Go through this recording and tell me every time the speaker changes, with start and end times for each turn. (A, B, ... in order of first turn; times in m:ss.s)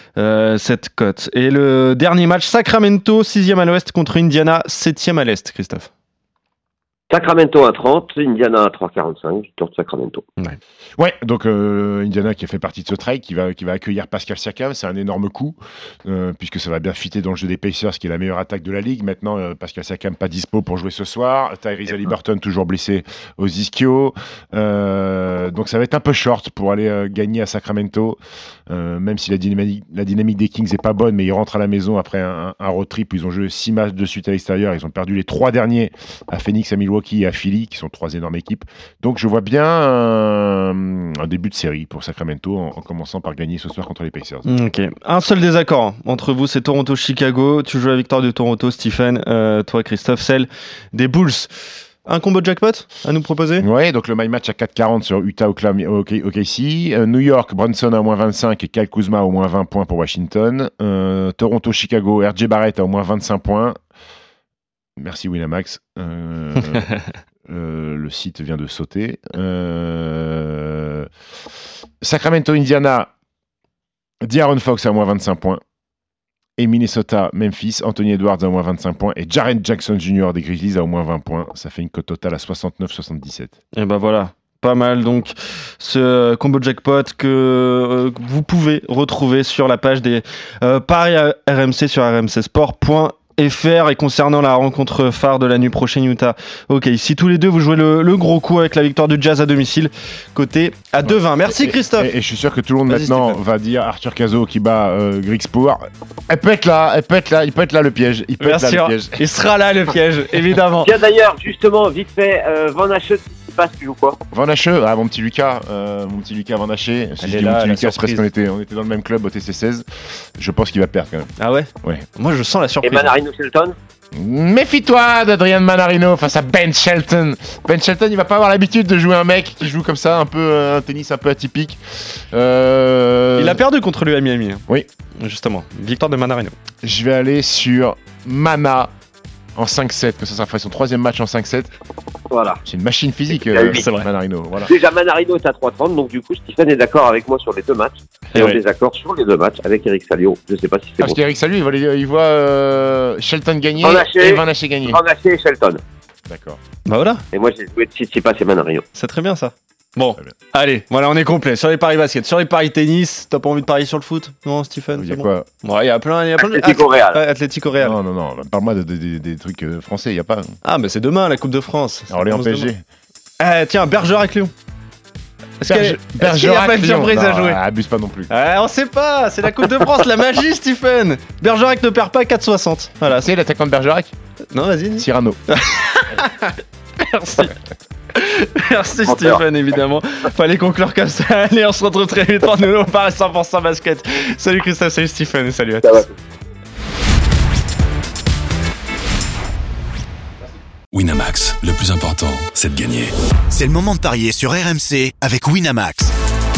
0:00.2-0:05.9 A
0:07.1-0:10.2 B
0:11.0-0:28.2 C
0:28.7-0:44.5 C
0:44.4-0:51.5 A
0:52.0-0:53.7 A
0:53.6-1:03.8 C
1:05.0-1:11.1 C
1:12.0-1:13.1 C
1:14.2-1:15.6 C
1:16.6-1:23.5 C
1:23.7-1:42.1 A
1:41.1-1:49.2 C
1:42.9-1:43.4 A
1:48.4-1:50.9 A
1:50.8-1:54.2 B
1:54.3-1:59.8 C
1:57.2-1:58.3 A
2:00.4-2:01.3 C
2:01.4-2:03.1 A
2:02.8-2:03.8 B
2:04.1-2:13.6 C
2:13.4-2:14.7 A
2:15.2-2:16.5 A
2:16.8-2:18.9 C
2:19.6-2:21.7 C
2:22.3-2:22.6 B
2:22.6-2:24.7 C
2:23.3-2:23.9 B
2:23.7-2:24.1 A
2:24.6-2:31.2 B
2:31.0-2:35.0 C
2:33.8-2:35.8 B
2:36.3-2:36.6 C
2:36.8-2:37.2 A
2:37.3-2:38.8 B
2:38.9-2:48.0 A
2:45.0-2:45.5 C
2:46.4-2:47.2 B
2:47.8-2:50.6 C
2:50.6-2:52.7 A
2:52.1-2:52.8 C
2:53.4-2:54.5 A
2:55.6-2:57.6 A
2:55.6-2:58.3 C
2:58.3-3:03.3 A
3:03.0-3:04.1 C
3:04.5-3:07.5 A
3:05.0-3:05.4 C
3:08.2-3:16.1 A
3:09.1-3:09.4 B
3:20.9-3:23.1 D
3:23.5-3:26.2 E